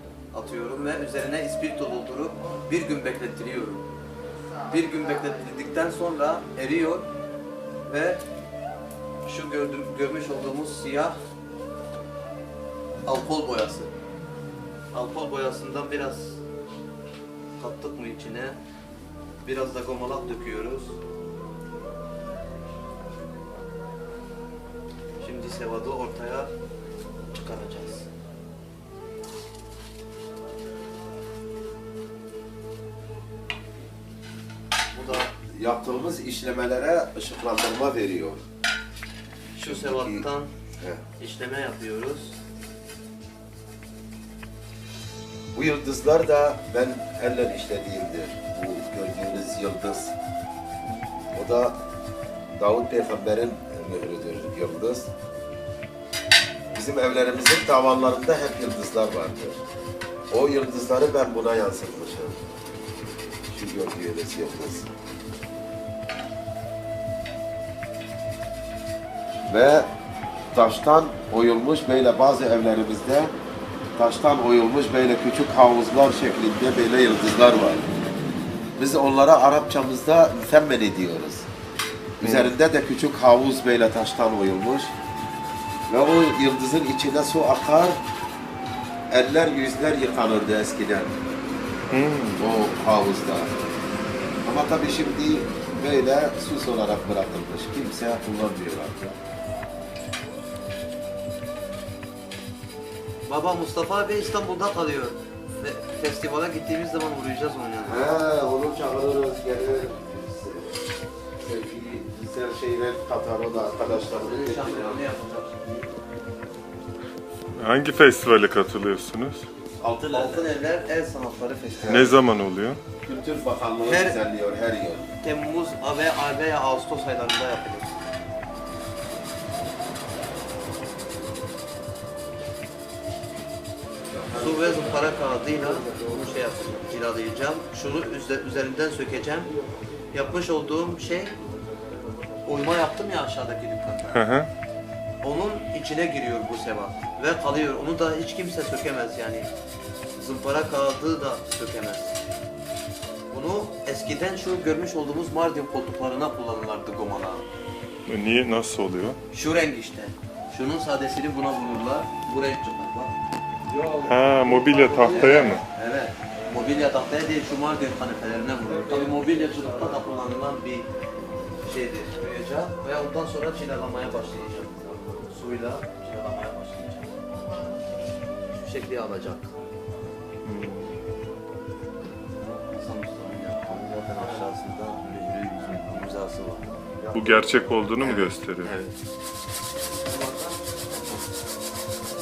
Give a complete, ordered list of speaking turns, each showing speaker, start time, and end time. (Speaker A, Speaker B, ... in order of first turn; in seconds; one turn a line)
Speaker A: 0.3-3.8
Speaker A: 4.6-7.1
Speaker A: 7.9-8.2
Speaker A: 9.2-11.2
Speaker A: 13.0-13.9
Speaker A: 14.9-16.4
Speaker A: 17.6-18.6
Speaker A: 19.4-21.0
Speaker A: 25.2-26.5
Speaker A: 27.3-28.1
Speaker A: 34.9-35.3
Speaker B: 35.3-38.4
Speaker B: 39.5-40.3
Speaker A: 39.5-40.5
Speaker A: 41.2-42.4
Speaker B: 45.5-50.1
Speaker B: 51.3-51.8
Speaker B: 52.5-55.1
Speaker B: 56.7-59.6
Speaker B: 60.3-62.4
Speaker B: 63.5-64.9
Speaker B: 69.5-69.9
Speaker B: 70.5-73.3
Speaker B: 74.0-77.8
Speaker B: 78.8-81.5
Speaker B: 82.2-84.9
Speaker C: 82.2-82.5
Speaker B: 85.9-88.0
Speaker B: 89.1-91.2
Speaker C: 91.9-92.4
Speaker B: 92.4-93.5
Speaker B: 94.4-99.2
Speaker A: 103.2-108.1
Speaker B: 107.8-110.7
Speaker B: 111.4-115.0
Speaker A: 113.7-115.9
Speaker C: 117.6-119.5
Speaker B: 119.8-120.5
Speaker A: 120.1-122.2
Speaker B: 121.8-122.1
Speaker C: 121.8-122.8
Speaker B: 123.0-125.1
Speaker A: 123.8-124.2
Speaker A: 125.2-128.0
Speaker B: 134.1-135.3
Speaker A: 134.3-139.5
Speaker A: 140.1-141.4
Speaker A: 142.4-144.2
Speaker C: 144.1-144.5
Speaker A: 145.2-149.5
Speaker A: 150.1-152.1
Speaker A: 153.3-157.4
Speaker C: 158.1-159.2
Speaker A: 159.3-163.1
Speaker C: 163.9-165.6
Speaker A: 164.9-170.9
Speaker A: 171.6-177.1
Speaker A: 178.6-179.5
Speaker C: 180.4-181.0
Speaker A: 182.7-187.0
Speaker B: 187.0-187.3
Speaker C: 187.1-188.7
Speaker A: 188.0-188.9
Speaker A: 190.0-190.6